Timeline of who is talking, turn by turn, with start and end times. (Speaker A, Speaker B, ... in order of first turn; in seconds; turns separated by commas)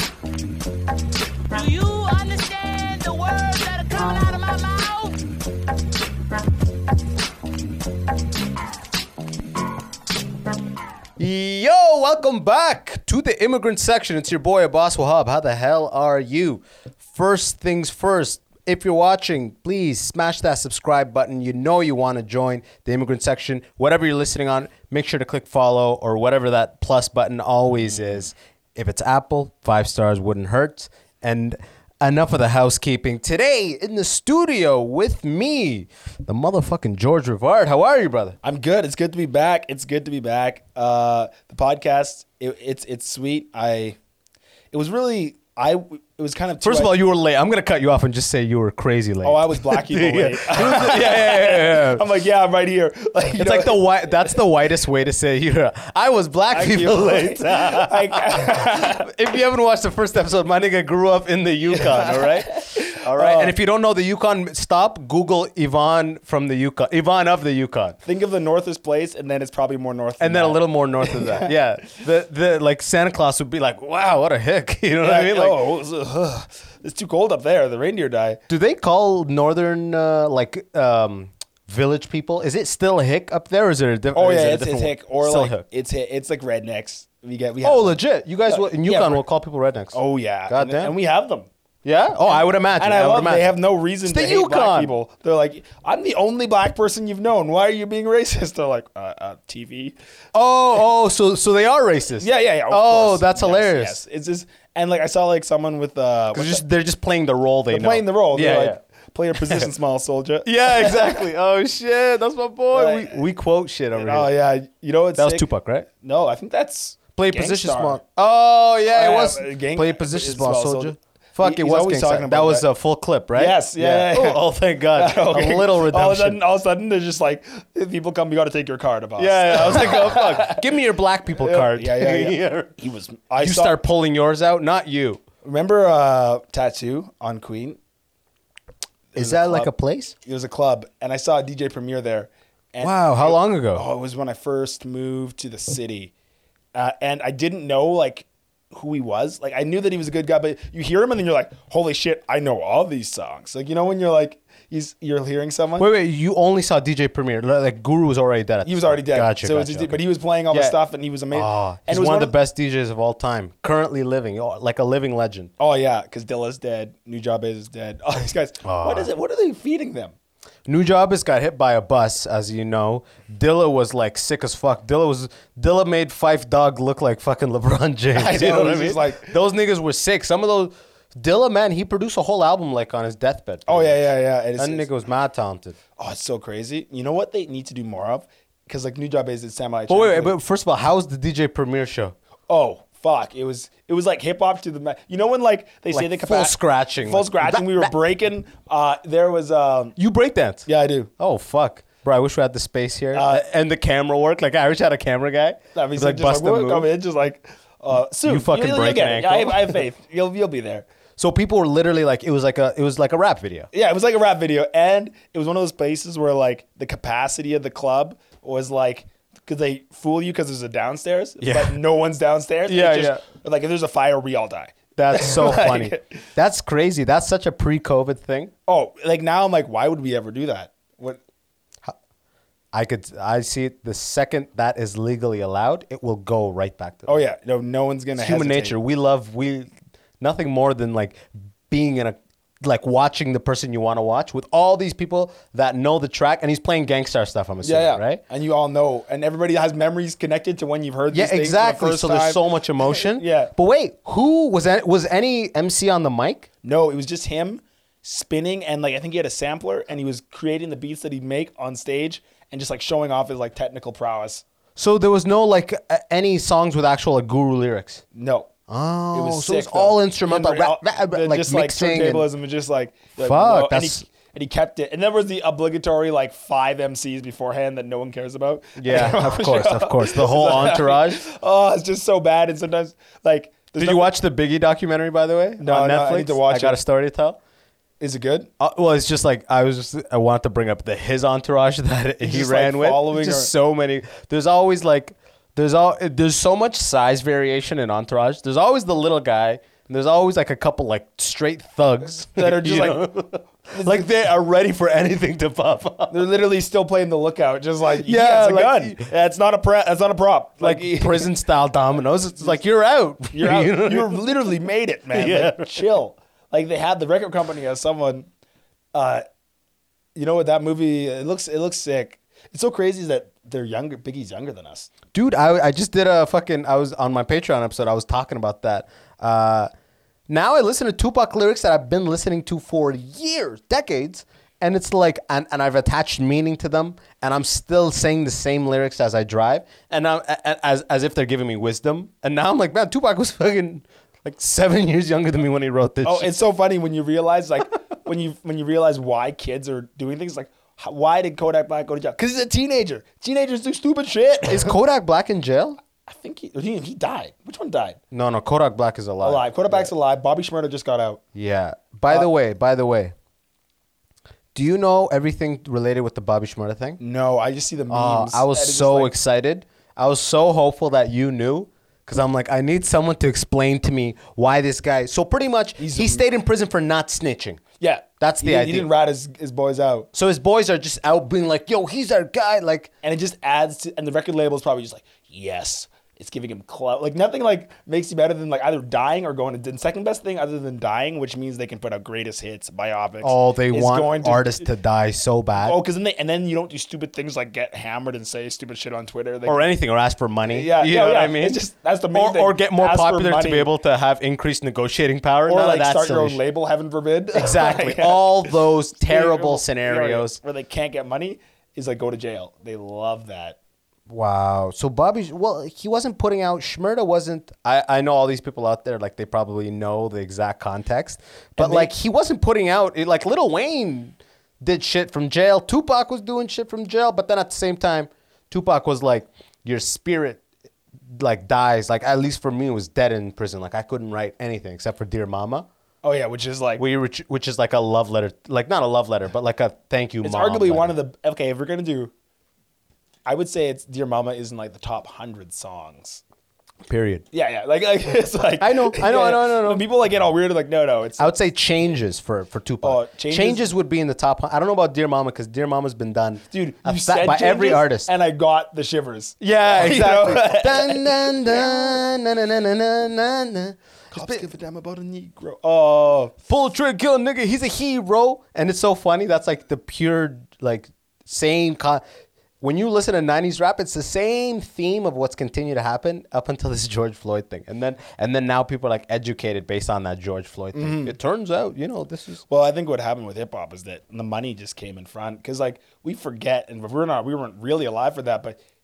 Speaker A: 1.5-5.2, Speaker B: 11.2-16.6, Speaker B: 17.1-38.4, Speaker C: 38.4-44.0, Speaker C: 44.7-46.9, Speaker B: 46.6-52.0, Speaker C: 49.2-54.4, Speaker B: 53.3-68.0, Speaker C: 56.5-59.1, Speaker C: 61.8-63.5, Speaker C: 68.1-71.5, Speaker B: 70.2-75.6, Speaker C: 75.0-78.4, Speaker B: 78.5-85.6, Speaker C: 84.1-89.2, Speaker B: 87.6-90.0, Speaker C: 89.9-91.5, Speaker B: 90.5-90.9, Speaker B: 91.8-93.5, Speaker C: 92.3-100.0, Speaker B: 94.0-94.9, Speaker B: 100.3-104.0, Speaker C: 102.2-106.6, Speaker B: 106.3-108.8, Speaker C: 107.7-111.2, Speaker B: 109.4-109.7, Speaker B: 110.5-114.3, Speaker C: 112.7-113.2, Speaker C: 113.9-115.5, Speaker B: 115.2-115.9, Speaker C: 116.0-118.0, Speaker B: 117.2-126.4, Speaker C: 118.9-122.7, Speaker C: 123.4-124.4, Speaker C: 124.9-130.7, Speaker B: 129.2-132.7, Speaker C: 131.4-133.8, Speaker B: 133.4-135.2, Speaker C: 135.4-137.8, Speaker C: 139.1-139.7, Speaker B: 139.2-140.1, Speaker C: 140.2-146.1, Speaker B: 142.8-143.8, Speaker C: 146.8-155.9, Speaker B: 155.8-160.8, Speaker C: 158.7-162.3, Speaker B: 161.3-165.5, Speaker C: 165.6-170.1, Speaker B: 168.6-169.1, Speaker B: 170.7-184.0, Speaker C: 178.2-179.4, Speaker C: 183.7-184.9, Speaker B: 184.6-185.8, Speaker C: 186.0-190.3, Speaker B: 189.9-192.2, Speaker C: 192.5-200.0, Speaker B: 195.9-197.9, Speaker B: 200.0-200.7, Speaker C: 200.7-201.1, Speaker B: 201.2-206.9, Speaker C: 203.1-203.5, Speaker C: 205.8-210.9, Speaker B: 208.3-209.8, Speaker B: 211.2-213.7, Speaker C: 213.7-226.1, Speaker B: 221.4-221.8, Speaker B: 222.7-223.2, Speaker B: 225.0-228.5, Speaker C: 228.7-231.2, Speaker B: 232.7-237.2, Speaker C: 237.1-238.8, Speaker B: 238.2-248.2, Speaker C: 247.6-252.4, Speaker B: 251.1-256.5, Speaker C: 252.9-253.5, Speaker C: 256.6-264.4, Speaker B: 264.8-268.0, Speaker C: 268.1-268.5, Speaker B: 268.7-272.3, Speaker C: 269.1-284.1, Speaker B: 273.2-274.1, Speaker B: 278.8-281.2, Speaker B: 283.8-287.4, Speaker C: 285.6-286.8, Speaker C: 288.0-288.5, Speaker B: 288.6-306.3, Speaker C: 292.2-293.5, Speaker C: 302.3-303.1, Speaker C: 303.7-304.1, Speaker C: 306.1-311.3, Speaker B: 308.0-309.1, Speaker B: 310.6-314.2, Speaker C: 313.3-318.3, Speaker B: 315.1-315.9, Speaker C: 318.9-319.2, Speaker C: 320.1-324.9, Speaker B: 325.1-329.7, Speaker B: 330.3-346.3, Speaker C: 346.0-354.8, Speaker B: 354.5-355.8, Speaker C: 356.1-358.0, Speaker B: 358.1-359.9, Speaker C: 359.2-361.2, Speaker B: 361.3-363.1, Speaker B: 364.6-367.0, Speaker C: 367.0-369.1, Speaker B: 367.9-377.6, Speaker C: 375.8-376.2, Speaker C: 377.8-380.1, Speaker B: 378.2-378.9, Speaker B: 380.1-382.9, Speaker C: 383.0-394.7, Speaker B: 393.2-395.8, Speaker C: 395.6-399.6, Speaker B: 399.5-406.4, Speaker C: 400.5-403.7, Speaker C: 405.5-413.6, Speaker B: 407.3-410.4, Speaker B: 414.1-430.4, Speaker C: 421.6-421.9, Speaker B: 431.1-435.7, Speaker C: 436.0-436.8, Speaker B: 436.8-440.9, Speaker C: 440.2-442.1, Speaker C: 443.3-446.2, Speaker B: 446.9-447.2, Speaker C: 447.3-451.3, Speaker B: 448.6-449.9, Speaker B: 451.2-458.1, Speaker C: 452.8-453.7, Speaker C: 456.5-462.0, Speaker B: 459.4-464.4, Speaker C: 464.1-466.4, Speaker B: 466.5-472.0, Speaker B: 472.6-482.4, Speaker C: 480.7-481.1, Speaker C: 482.5-488.6